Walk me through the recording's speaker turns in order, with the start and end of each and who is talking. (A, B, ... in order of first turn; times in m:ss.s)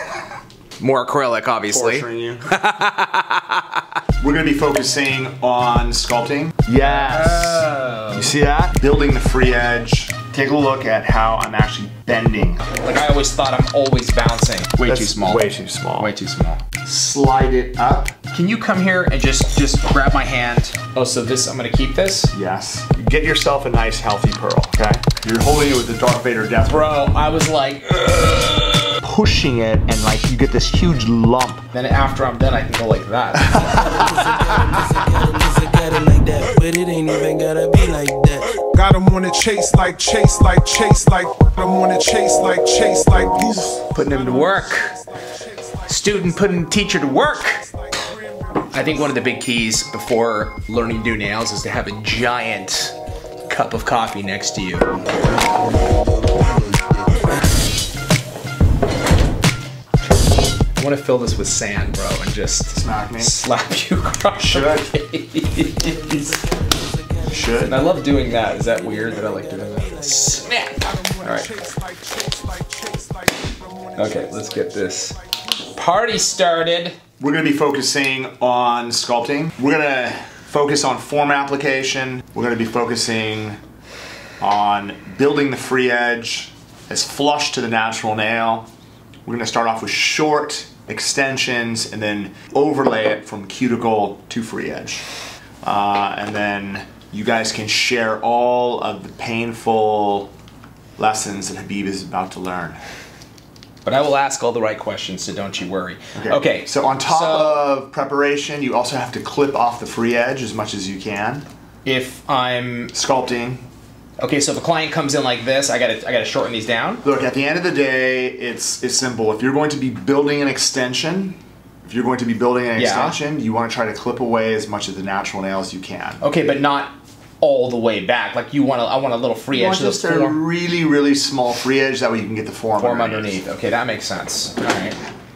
0:00.8-0:03.8 A
0:01.7-0:02.5 B
0:04.2-0:12.6 B
0:06.8-0:08.4 A
0:12.7-0:16.6 A
0:14.8-0:16.1 B
0:16.8-0:18.2 B
0:18.3-0:22.3 A
0:22.3-0:27.0 B
0:26.7-0:29.0 A
0:29.0-0:31.6 B
0:31.7-0:34.1 A
0:33.5-0:34.0 B
0:33.6-0:38.6 C
0:38.7-0:49.3 D
0:43.9-0:44.9 A
0:45.9-0:47.6 A
0:48.7-0:53.0 A
0:53.5-0:55.0 A
0:54.9-0:57.6 C
1:00.8-1:06.4 A
1:02.7-1:03.4 B
1:04.4-1:04.9 B
1:05.6-1:10.5 C
1:07.2-1:07.8 B
1:07.6-1:11.5 A
1:10.4-1:15.4 D
1:14.0-1:15.2 A
1:15.7-1:17.0 A
1:17.2-1:23.6 B
1:24.4-1:28.7 B
1:29.3-1:35.0 B
1:35.6-1:40.3 B
1:41.0-1:42.8 B
1:43.8-1:47.6 A
1:46.2-1:51.5 B
1:51.8-1:52.9 A
1:52.9-1:53.7 B
1:54.2-1:57.0 A
1:57.0-2:06.2 B
2:02.8-2:03.2 A
2:06.2-2:10.4 A
2:09.5-2:13.4 B
2:12.8-2:15.0 A